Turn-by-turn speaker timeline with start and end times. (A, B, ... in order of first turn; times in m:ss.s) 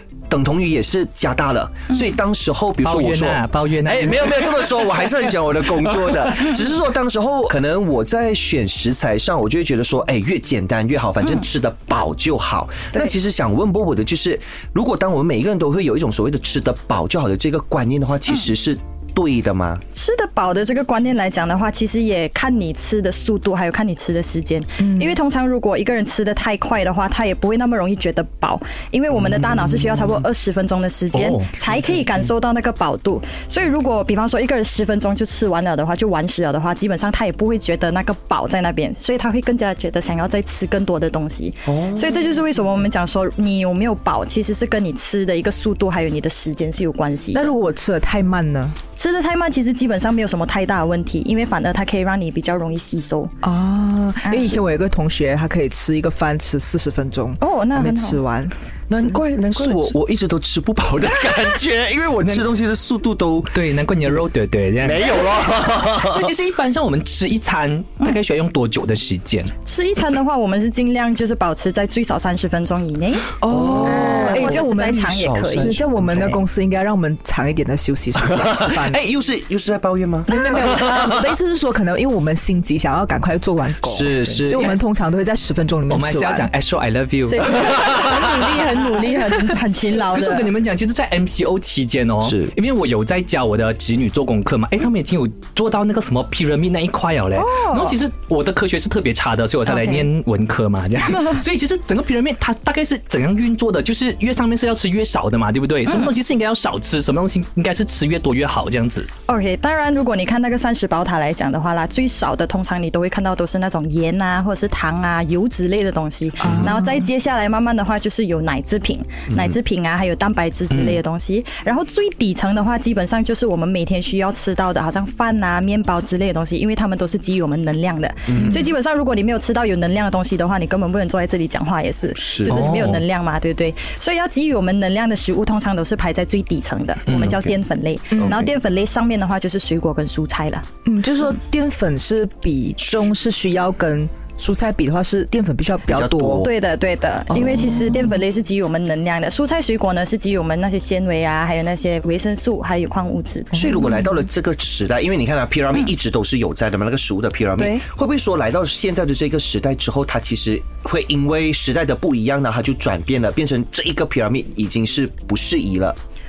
0:00.3-0:19.8 A
0:02.8-0:04.4 B
0:19.9-0:47.5 C
0:24.8-0:25.1 D
0:31.1-0:31.5 B
0:41.7-0:42.4 A
0:47.3-0:48.8 D
0:49.0-0:53.3 C
0:53.4-1:00.0 D
0:54.2-0:54.6 C
0:57.4-0:58.2 C
0:58.9-1:04.2 A
1:02.2-1:02.5 B
1:03.5-1:09.5 B
1:04.8-1:06.4 A
1:09.6-1:16.4 C
1:13.4-1:16.4 A
1:13.4-1:19.0 D
1:18.3-1:21.3 A
1:20.3-1:26.5 D
1:23.8-1:24.8 A
1:24.2-1:24.7 B
1:25.9-1:27.6 B
1:27.2-1:30.5 C
1:30.1-1:49.1 B
1:32.2-1:32.5 A
1:37.4-1:38.0 C
1:39.7-1:40.1 C
1:45.9-1:46.1 C
1:49.3-2:20.7 C
1:56.4-1:57.0 D
1:56.4-1:56.7 A
1:59.3-1:59.6 A
2:08.3-2:08.6 A
2:12.2-2:12.6 A
2:12.5-2:13.0 B
2:17.1-2:17.6 A
2:18.1-2:18.4 D
2:18.2-2:18.5 A
2:20.8-2:26.5 D
2:25.9-2:26.5 A
2:26.4-2:33.6 C
2:27.3-2:28.0 D
2:33.5-2:46.0 A
2:33.6-2:34.0 D
2:37.6-2:37.8 C